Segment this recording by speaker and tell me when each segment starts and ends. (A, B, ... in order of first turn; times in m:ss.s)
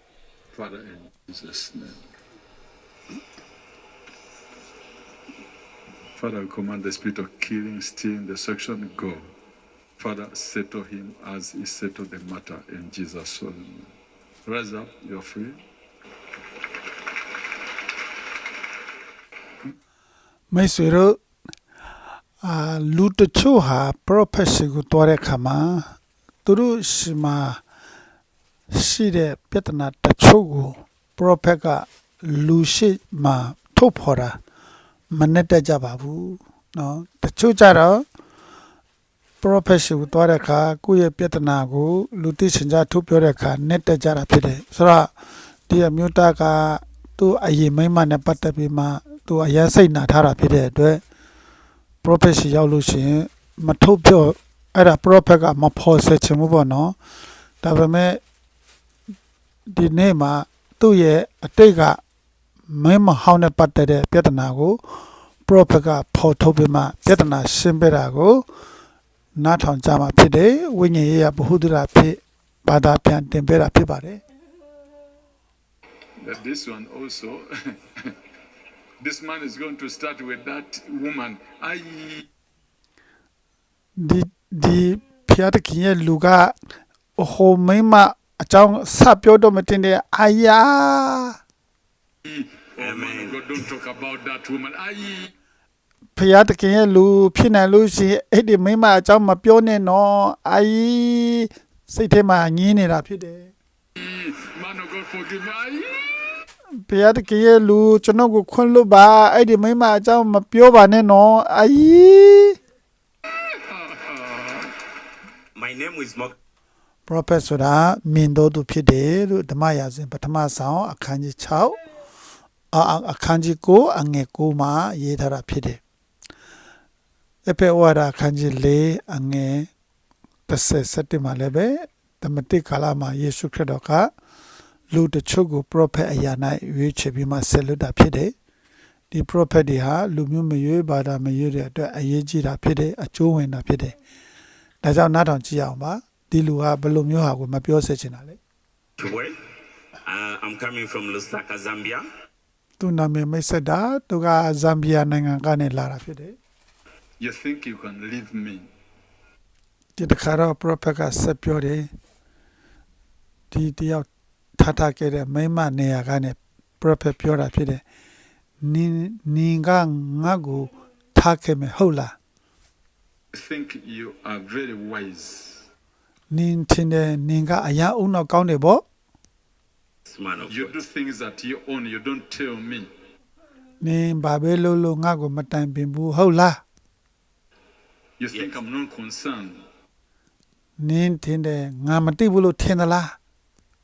0:00.5-0:02.0 A
0:06.2-0:09.3 A
0:10.0-0:13.9 A
0:14.5-0:15.6 A
0:20.5-0:21.2 B
0:22.4-0:25.9 B
0:26.4-0:27.6 B
0:28.7-0:34.4 B
0:35.1-0:38.1 B
0:39.4-0:45.1 B
0:45.7-0:51.0 B
0:52.0-0:57.0 B
0:57.6-0:58.2 B
0:59.7-1:02.0 B
1:02.7-1:04.9 B
1:05.5-1:08.5 B
1:09.4-1:14.2 B
1:16.2-1:18.2 A
1:19.0-1:22.3 A
1:24.0-1:26.6 B
1:27.2-1:31.4 B
1:32.2-1:35.3 A
1:32.8-1:33.4 C
1:36.2-1:43.5 B
1:44.0-1:46.4 A
1:46.8-1:52.6 B
1:53.6-1:54.7 A
1:55.6-1:56.4 C
1:57.1-2:01.8 B
2:02.7-2:05.8 B
2:07.4-2:09.7 B
2:10.5-2:14.1 B
2:14.9-2:18.3 B
2:19.1-2:24.0 B
2:24.8-2:28.4 B
2:29.0-2:29.4 C
2:30.0-2:32.0 C
2:32.8-2:36.4 B
2:37.2-2:38.7 A
2:40.0-2:41.9 B
2:43.5-2:44.1 B
2:44.6-2:47.8 B
2:48.6-2:52.2 B
2:53.3-2:55.7 A
2:56.3-2:58.8 B
3:00.1-3:00.8 C
3:00.5-3:02.9 A
3:03.8-3:06.6 B
3:08.2-3:09.6 A
3:10.8-3:13.2 B